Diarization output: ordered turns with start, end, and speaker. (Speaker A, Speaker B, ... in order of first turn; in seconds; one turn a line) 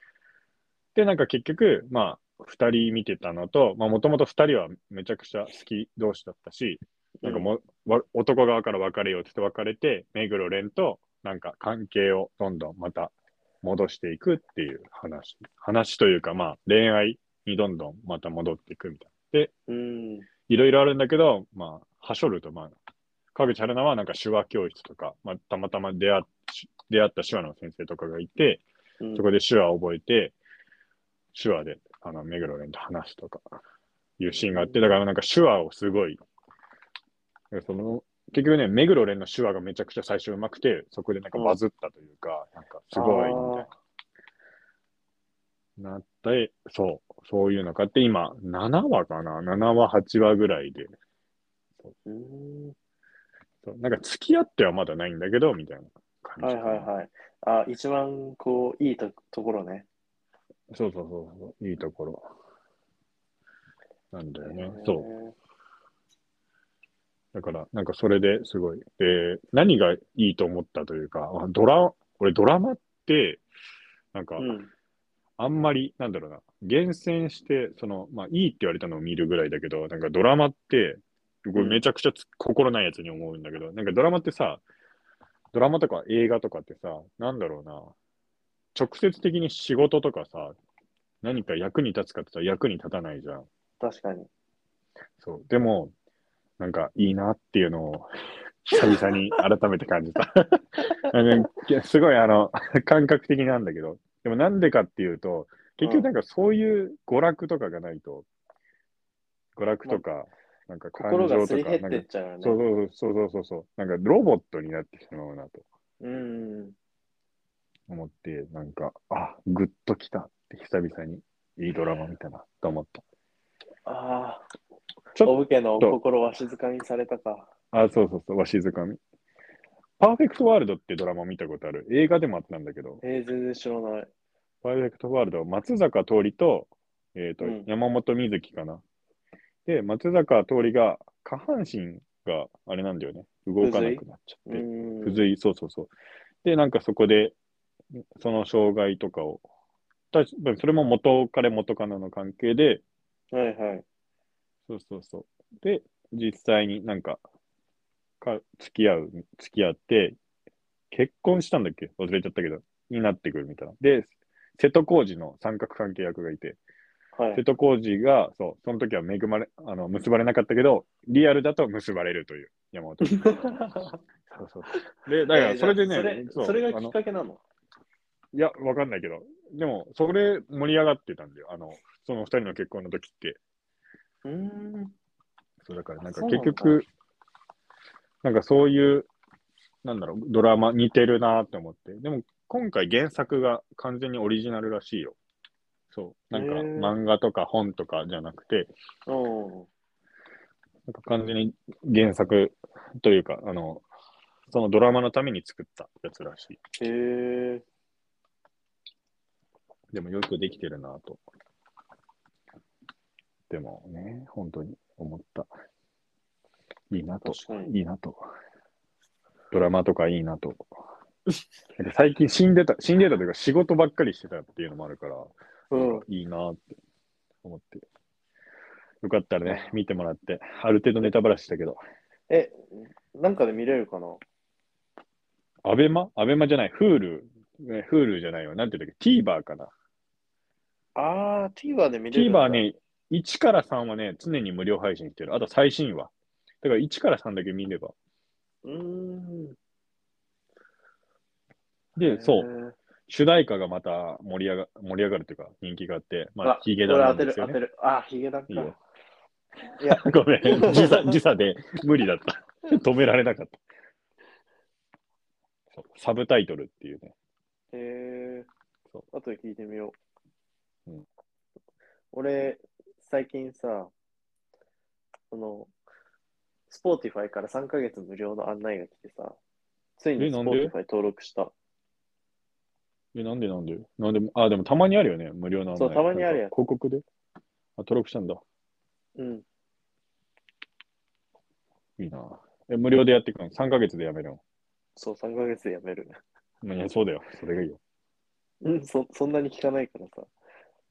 Speaker A: 0.9-19.5
Speaker B: 7.2-7.5
Speaker B: 19.7-20.3
Speaker A: 20.5-22.7
Speaker A: 23.3-28.6
Speaker B: 29.0-29.2
Speaker A: 29.1-30.4
Speaker A: 31.3-33.5
Speaker A: 34.2-36.2
Speaker B: 34.5-34.8
Speaker A: 37.5-43.7
Speaker B: 42.9-43.7
Speaker A: 45.8-50.9
Speaker B: 52.0-52.7
Speaker A: 53.6-56.9
Speaker B: 56.4-59.9
Speaker A: 60.7-62.3
Speaker A: 64.1-65.1
Speaker B: 64.4-65.3
Speaker A: 67.3-73.4
Speaker A: 74.1-74.5
Speaker B: 74.4-74.7
Speaker A: 75.4-84.6
Speaker B: 81.5-81.8
Speaker A: 85.5-87.9
Speaker A: 88.7-90.5
Speaker A: 91.2-93.5
Speaker B: 93.8-94.3
Speaker A: 95.2-95.9
Speaker A: 96.6-98.1
Speaker A: 98.6-108.2
Speaker B: 105.8-106.1
Speaker A: 109.5-115.7
Speaker B: 111.0-112.6
Speaker B: 116.0-116.8
Speaker A: 117.9-123.0
Speaker B: 123.8-124.5
Speaker A: 125.1-126.0
Speaker B: 125.2-127.5
Speaker A: 127.7-129.0
Speaker A: 130.0-133.0
Speaker B: 133.0-134.1
Speaker A: 134.6-138.8
Speaker B: 137.4-137.7
Speaker A: 139.7-145.9
Speaker B: 143.6-145.2
Speaker A: 146.4-147.3
Speaker A: 148.2-149.4
Speaker A: 150.1-152.8
Speaker B: 153.3-153.8
Speaker A: 154.7-157.2
Speaker A: 158.2-160.2
Speaker A: 160.9-166.6
Speaker B: 167.2-167.4
Speaker A: 167.3-173.7
Speaker B: 173.1-174.0
Speaker A: 174.2-176.9
Speaker B: 175.3-177.4
Speaker A: 178.3-183.4
Speaker B: 184.2-184.9
Speaker A: 185.6-186.9
Speaker B: 186.1-186.8
Speaker A: 188.2-189.1
Speaker A: 189.8-195.2
Speaker A: 195.9-198.7
Speaker B: 196.3-196.9
Speaker B: 199.1-199.7
Speaker A: 200.9-203.8
Speaker A: 204.5-206.6
Speaker B: 206.8-207.6
Speaker A: 209.9-211.2
Speaker A: 213.5-215.5
Speaker A: 216.9-218.3
Speaker B: 217.2-217.7
Speaker A: 219.5-220.9
Speaker A: 221.8-226.8
Speaker B: 225.7-226.0
Speaker A: 227.4-227.8
Speaker A: 229.0-231.8
Speaker B: 229.4-229.8
Speaker B: 232.3-234.2
Speaker A: 235.6-239.7
Speaker B: 240.9-242.6
Speaker A: 242.1-247.9
Speaker B: 248.6-249.6
Speaker A: 251.9-252.5
Speaker B: 252.0-252.7
Speaker A: 253.1-257.6
Speaker B: 256.4-258.8
Speaker A: 258.5-258.8
Speaker A: 259.7-263.6
Speaker B: 259.8-261.1
Speaker A: 265.7-267.1
Speaker B: 267.7-268.5
Speaker B: 269.1-269.9
Speaker B: 272.1-273.9
Speaker B: 275.3-275.7
Speaker B: 276.7-279.4
Speaker B: 280.0-281.5
Speaker A: 280.2-280.7
Speaker A: 283.1-287.0
Speaker B: 285.8-286.5
Speaker A: 287.8-288.4
Speaker B: 289.1-289.4
Speaker A: 292.0-294.4
Speaker B: 294.9-296.2
Speaker A: 296.6-297.8
Speaker B: 298.6-300.3